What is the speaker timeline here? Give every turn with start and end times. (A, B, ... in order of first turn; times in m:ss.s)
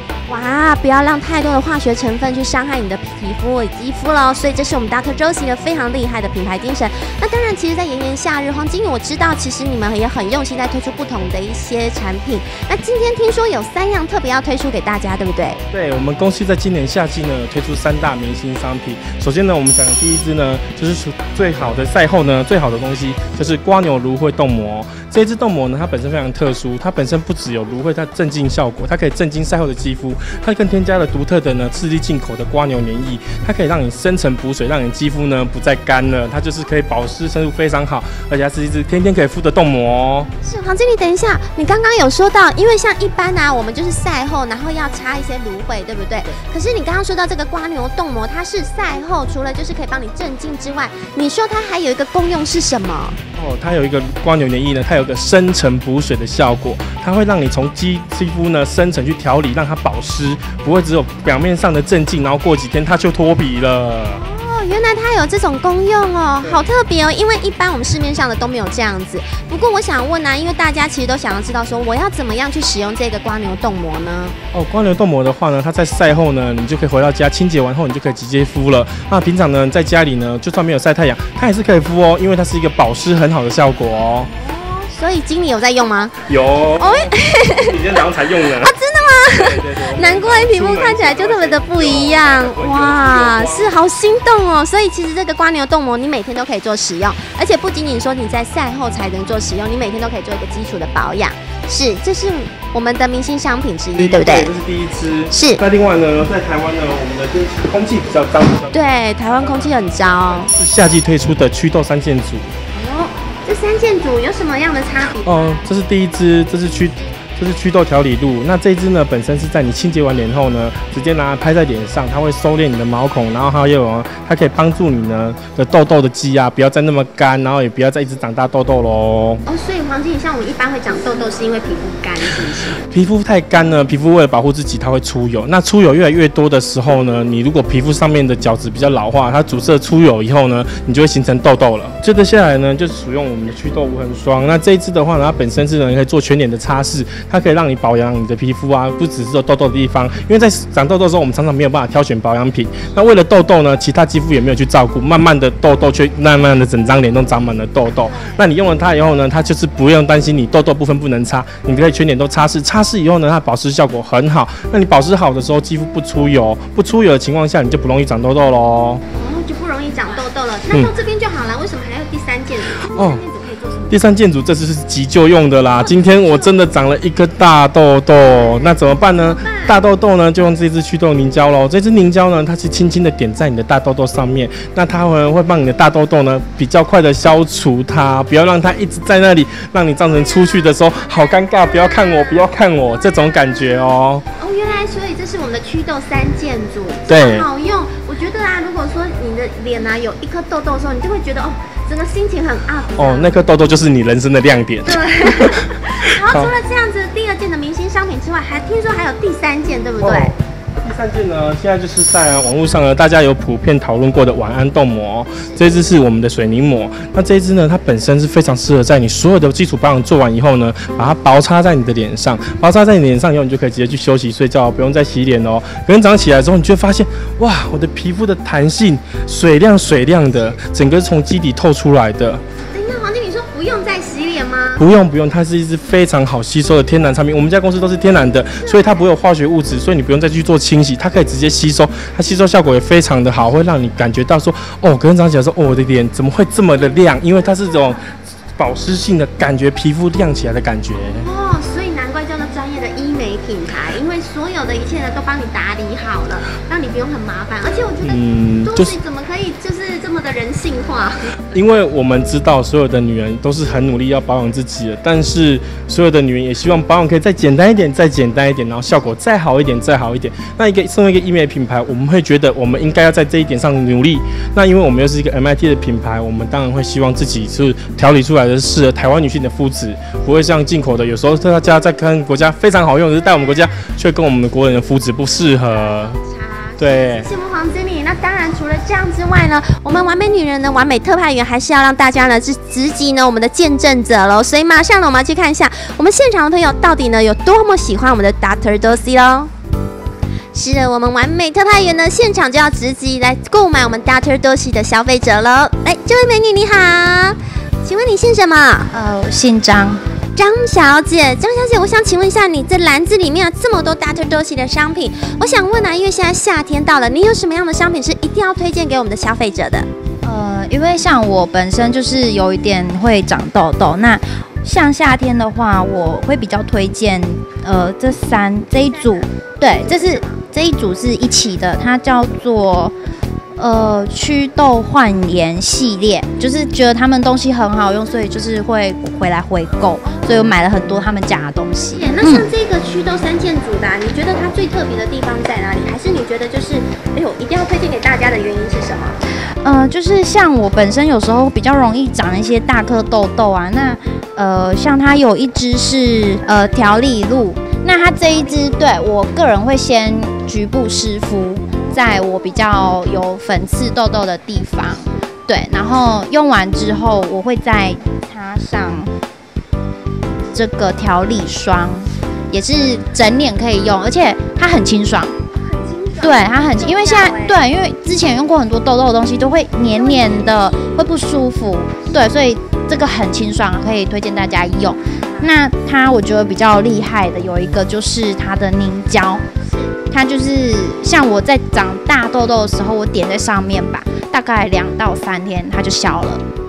0:00.3-0:15.6 A
0:15.7-0:40.3 B
0:40.4-0:53.2 A
0:53.4-1:04.2 B
1:04.1-1:14.4 A
1:06.4-1:06.7 B
1:14.5-1:24.3 B
1:24.4-1:26.2 A
1:26.2-1:28.7 B
1:26.8-1:44.5 A
1:29.3-1:33.8 B
1:43.9-1:52.5 B
1:45.3-1:45.6 A
1:48.7-1:50.5 A
1:52.7-1:55.7 A
1:55.2-2:09.4 B
2:09.5-2:12.8 A
2:12.9-2:49.0 B
2:37.9-2:38.4 A
2:49.2-2:54.0 A
2:52.9-2:53.2 B
2:53.9-3:14.2 B
2:55.8-2:56.6 A
2:58.2-2:59.8 A
3:11.3-3:12.4 A
3:14.4-3:23.4 A
3:17.1-3:17.5 B
3:23.0-3:26.6 B
3:24.8-3:30.3 A
3:30.0-3:52.4 B
3:50.3-3:50.6 A
3:52.7-3:54.8 A
3:54.8-4:08.0 B
3:58.6-3:59.1 A
4:08.6-4:11.3 B
4:11.2-4:21.4 A
4:18.0-4:19.0 B
4:21.5-4:46.2 B
4:45.6-4:59.5 A
4:46.8-4:47.3 B
5:00.5-5:08.9 A
5:08.9-5:10.0 C
5:10.4-5:19.9 A
5:20.2-5:33.0 C
5:28.8-5:30.4 A
5:33.6-5:42.5 C
5:41.9-5:49.2 A
5:49.6-6:09.1 C
5:58.1-5:59.0 A
6:04.8-6:05.2 A
6:10.5-6:15.4 C
6:15.6-6:17.6 A
6:16.2-6:29.4 C
6:19.9-6:21.1 A
6:25.1-6:25.4 A
6:29.6-6:30.0 A
6:30.1-6:36.4 C